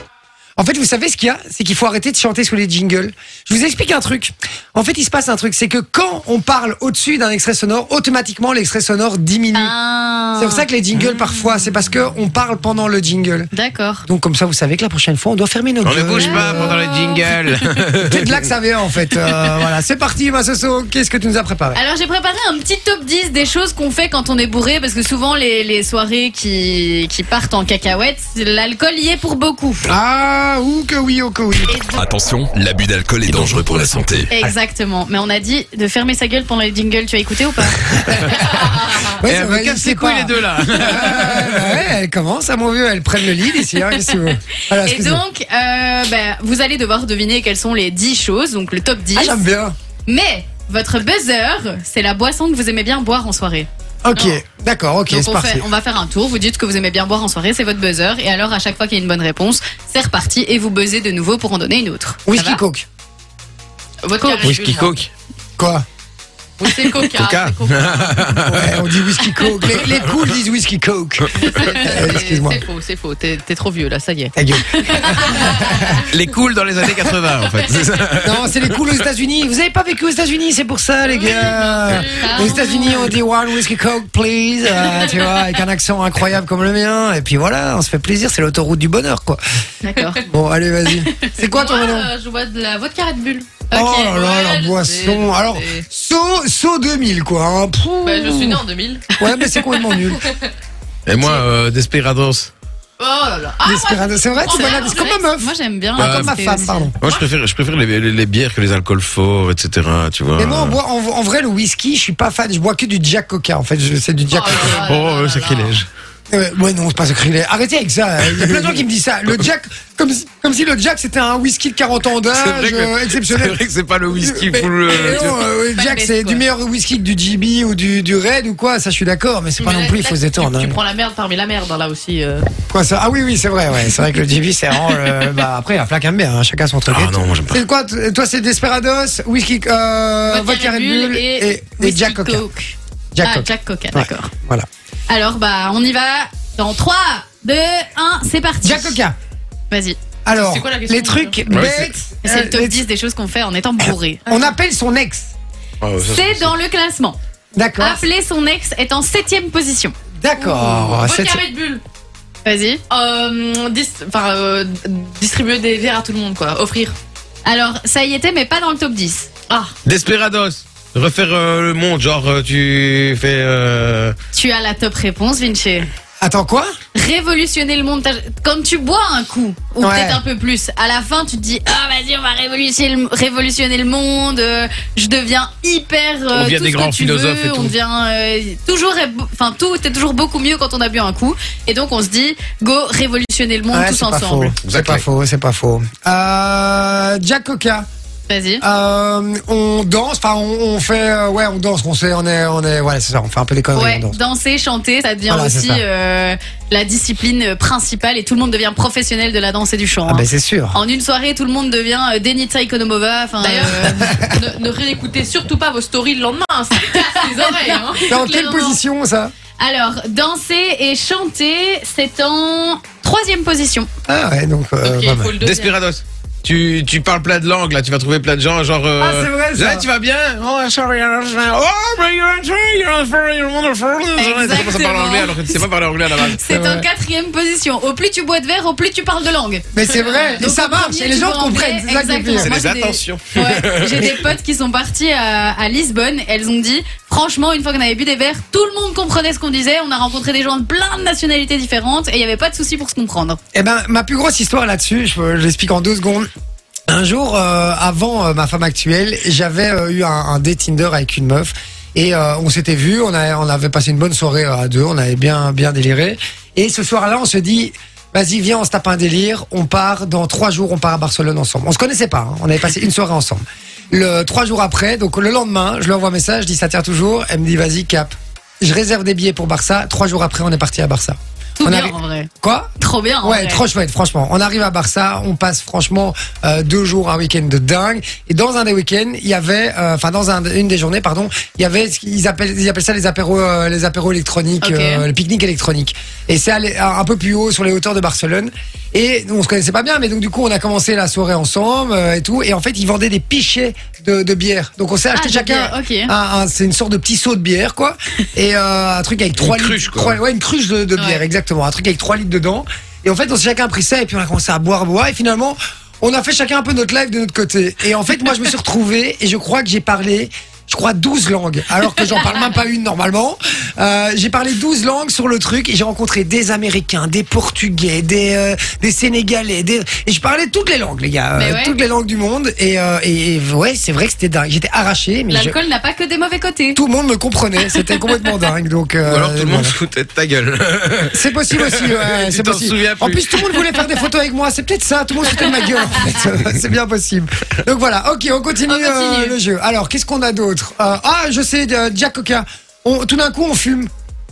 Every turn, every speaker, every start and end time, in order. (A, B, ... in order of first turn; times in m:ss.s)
0:00.6-0:09.7 A
0:09.6-0:10.7 B
0:10.4-0:13.5 A
0:13.5-0:14.0 B
0:14.0-0:16.8 A
0:15.8-0:18.4 C
0:16.2-0:17.3 B
0:18.1-0:21.8 A
0:21.8-0:29.9 B
0:29.9-0:31.8 A
0:31.7-0:32.0 B
0:31.8-0:34.3 D
0:34.3-0:38.4 B
0:37.6-0:45.2 A
0:38.4-0:39.2 E
0:39.2-0:41.8 C
0:43.5-0:49.4 B
0:49.1-0:49.7 A
0:50.1-0:54.4 B
0:54.0-0:55.7 A
0:55.1-1:02.6 B
1:02.3-1:02.9 A
1:04.0-1:05.0 E
1:04.2-1:04.5 B
1:04.4-1:05.1 C
1:05.6-1:05.8 A
1:06.6-1:08.7 E
1:07.0-1:08.8 C
1:08.5-1:12.6 A
1:09.6-1:10.2 C
1:11.4-1:14.3 E
1:14.4-1:16.0 A
1:14.6-1:15.7 B
1:15.2-1:16.0 E
1:16.1-1:19.0 C
1:17.1-1:18.0 E
1:18.2-1:29.4 A
1:21.0-1:23.1 E
1:24.8-1:25.2 E
1:29.8-1:30.2 B
1:30.3-1:32.1 A
1:31.4-1:35.9 E
1:33.7-1:38.6 A
1:38.0-1:39.0 E
1:39.2-1:40.2 A
1:39.4-1:40.0 B
1:40.0-1:40.4 E
1:41.1-1:42.5 C
1:43.0-1:45.1 E
1:43.6-1:47.0 A
1:44.5-1:46.9 B
1:46.0-1:46.3 C
1:47.0-1:50.8 C
1:50.4-1:54.8 A
1:54.3-1:55.8 E
1:54.8-1:55.9 C
1:56.3-2:03.6 A
1:58.3-1:58.8 C
2:02.3-2:05.5 C
2:04.2-2:10.8 A
2:05.7-2:06.4 B
2:09.6-2:12.5 E
2:12.7-2:22.4 A
2:15.0-2:15.3 E
2:16.9-2:17.6 C
2:20.3-2:21.1 E
2:21.1-2:24.3 B
2:23.1-2:24.7 A
2:25.1-2:29.0 B
2:28.6-2:29.2 A
2:29.7-2:30.0 B
2:30.2-2:32.8 A
2:30.4-2:31.4 E
2:31.5-2:31.9 C
2:32.2-2:34.5 B
2:34.3-2:35.3 A
2:35.8-2:36.5 C
2:36.0-2:37.2 B
2:37.6-2:38.0 A
2:37.8-2:39.9 B
2:40.2-2:41.4 A
2:40.4-2:41.8 E
2:42.4-2:42.8 B
2:42.9-2:47.0 E
2:47.4-2:49.3 B
2:49.8-2:54.2 C
2:54.3-2:55.9 B
2:56.2-2:56.7 A
2:57.0-3:14.5 B
2:59.8-3:00.2 A
3:06.3-3:07.8 C
3:13.7-3:17.9 A
3:14.7-3:15.0 C
3:18.3-3:18.6 B
3:18.6-3:24.2 A
3:23.7-3:34.2 B
3:25.3-3:25.8 A
3:30.1-3:30.8 A
3:33.4-3:38.1 E
3:37.0-3:38.8 B
3:38.1-3:39.3 A
3:39.6-3:43.9 B
3:44.1-3:45.3 A
3:44.8-3:45.7 E
3:45.4-3:56.4 C
3:49.0-3:49.9 A
3:54.2-3:55.6 B
3:56.3-3:59.7 B
3:56.4-3:56.9 A
3:59.7-4:02.6 A
4:00.4-4:13.4 B
4:02.4-4:04.1 C
4:13.6-4:16.3 A
4:16.9-4:42.7 A
4:41.6-4:43.6 B
4:43.2-5:35.6 A
4:54.6-4:55.0 B
5:05.1-5:06.1 B
5:09.4-5:10.2 C
5:11.0-5:11.2 B
5:31.4-5:31.8 B
5:35.3-5:36.8 B
5:36.8-5:39.8 A
5:37.6-5:38.5 B
5:39.1-5:43.8 C
5:41.1-5:53.9 A
5:45.4-5:45.7 B
5:48.7-5:49.4 B